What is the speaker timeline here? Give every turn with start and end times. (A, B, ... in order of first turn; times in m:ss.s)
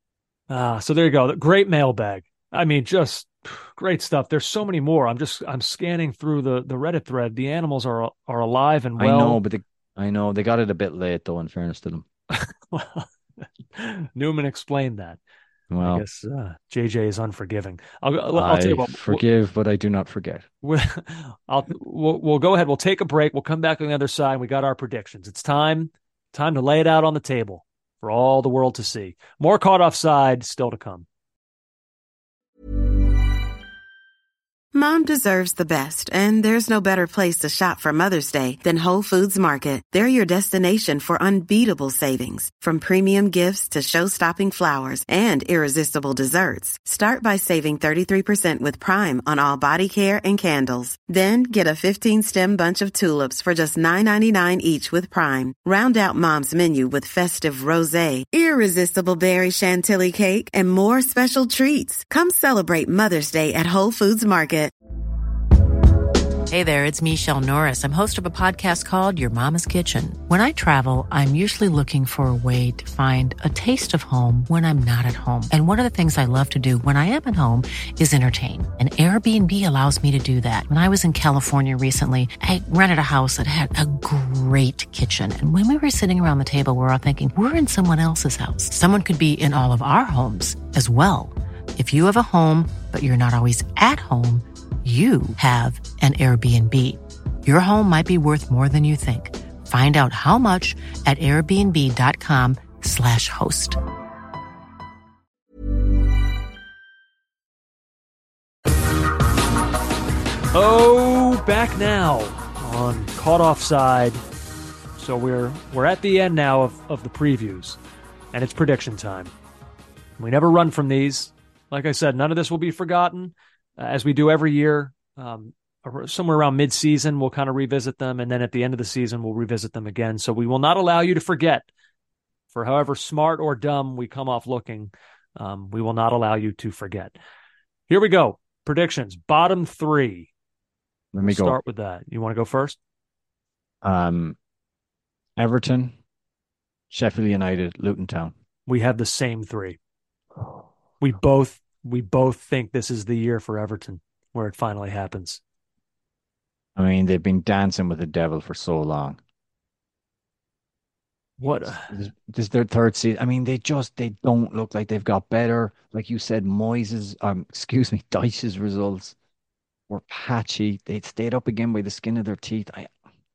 0:00.5-0:09.4 A
0:09.0-0:12.0 B
0:12.3-0:15.2 A
0:15.7-0:16.0 B
0:15.8-0:19.2 A
0:18.3-0:20.5 B
0:20.6-0:31.0 A
0:34.7-1:04.7 C
1:06.5-1:43.8 D
1:50.5-1:54.2 A
1:55.0-1:57.8 A
1:58.3-1:59.3 A
2:00.2-2:11.7 A
2:12.5-2:17.2 A
2:17.9-2:20.3 A
2:21.1-2:21.6 B
2:21.2-2:22.8 A
2:23.8-2:24.4 B
2:25.4-2:26.0 B
2:26.9-2:28.3 B
2:28.7-2:29.8 A
2:31.0-2:35.4 A
2:36.8-2:39.2 B
2:41.4-2:42.0 A
2:41.6-2:49.2 B
2:49.9-2:52.9 B